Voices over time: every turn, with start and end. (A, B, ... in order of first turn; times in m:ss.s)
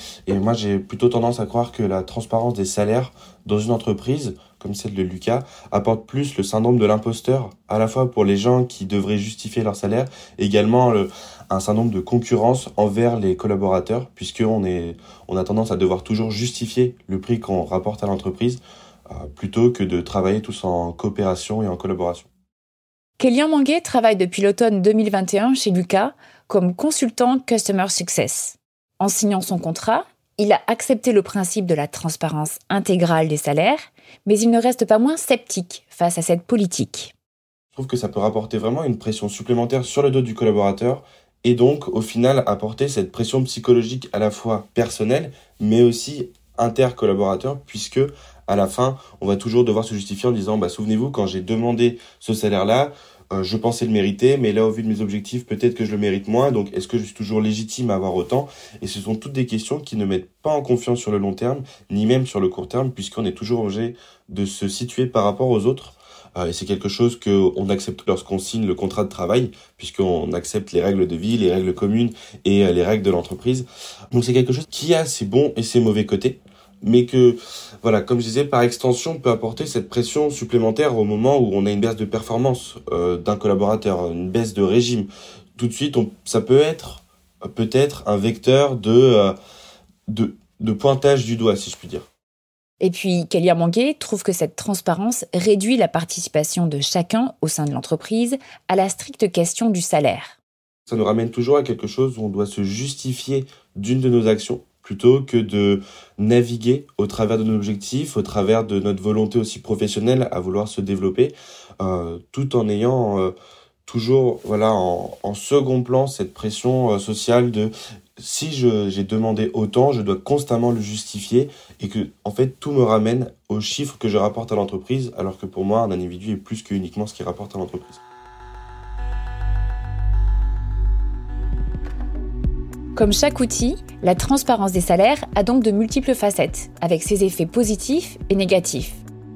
0:00.3-0:22.3 A
0:23.2-0:37.1 B
0:37.7-1:29.4 A
1:30.1-1:32.1 A
1:32.8-1:40.4 B
1:40.9-1:53.4 A
1:53.9-2:08.0 A
2:12.9-2:19.0 B